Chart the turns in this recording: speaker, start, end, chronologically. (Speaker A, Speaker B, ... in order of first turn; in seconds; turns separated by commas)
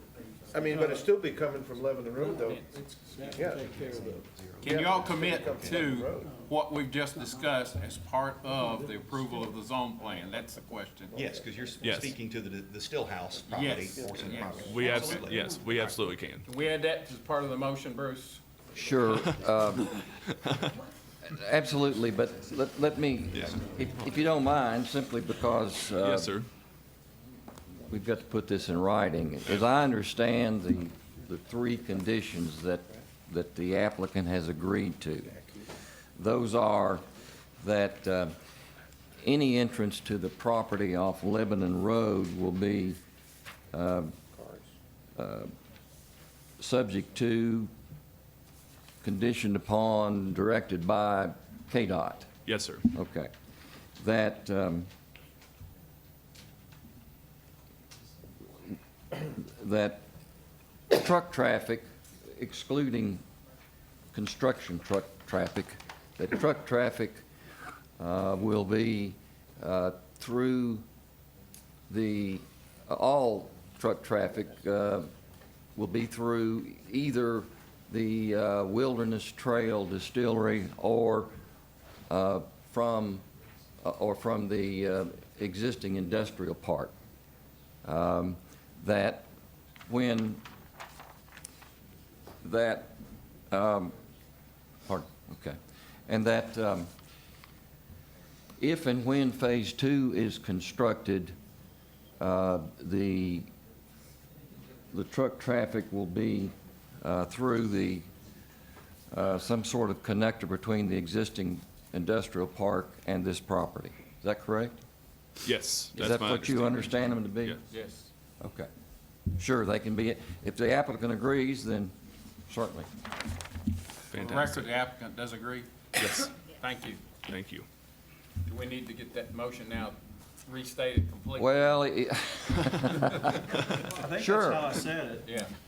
Speaker A: 0.5-2.6, Speaker B: 0.6-1.1, Speaker B: 2.2-4.3, Speaker A: 3.3-3.8, Speaker C: 4.3-4.9, Speaker D: 4.6-11.2, Speaker A: 4.6-6.3, Speaker B: 6.2-6.5, Speaker B: 7.2-7.6, Speaker B: 8.4-9.5, Speaker A: 11.1-12.0, Speaker C: 11.1-15.9, Speaker E: 11.8-12.2, Speaker A: 13.5-14.8, Speaker D: 13.5-15.2, Speaker E: 14.6-16.4, Speaker D: 16.4-18.4, Speaker F: 18.7-20.0, Speaker E: 19.1-20.8, Speaker F: 21.2-26.3, Speaker C: 23.3-23.6, Speaker E: 26.0-26.5, Speaker F: 27.9-35.3, Speaker A: 35.3-35.6, Speaker F: 36.1-37.0, Speaker F: 37.6-38.4, Speaker F: 39.2-43.0, Speaker F: 43.7-44.1, Speaker A: 44.3-44.6, Speaker F: 45.1-45.5, Speaker F: 46.6-47.7, Speaker F: 49.0-52.3, Speaker E: 52.4-52.9, Speaker F: 52.9-53.3, Speaker F: 54.0-54.9, Speaker F: 59.2-60.1, Speaker F: 60.9-63.2, Speaker F: 64.1-67.2, Speaker F: 68.0-70.8, Speaker F: 71.9-75.1, Speaker F: 75.8-81.3, Speaker F: 82.1-83.2, Speaker F: 83.8-86.9, Speaker F: 87.8-89.3, Speaker F: 89.9-90.4, Speaker F: 92.4-93.0, Speaker F: 93.5-94.0, Speaker F: 94.8-96.9, Speaker F: 98.6-101.3, Speaker F: 102.2-103.5, Speaker F: 104.9-108.1, Speaker F: 109.1-114.8, Speaker E: 115.4-117.6, Speaker F: 115.9-117.6, Speaker D: 117.7-118.1, Speaker F: 118.4-118.7, Speaker F: 119.4-121.9, Speaker F: 122.5-122.9, Speaker E: 124.1-124.8, Speaker D: 124.1-127.0, Speaker E: 126.0-126.3, Speaker E: 127.2-127.7, Speaker D: 128.4-131.8, Speaker F: 131.3-133.4, Speaker B: 133.7-135.3, Speaker F: 134.0-134.9, Speaker D: 135.2-135.5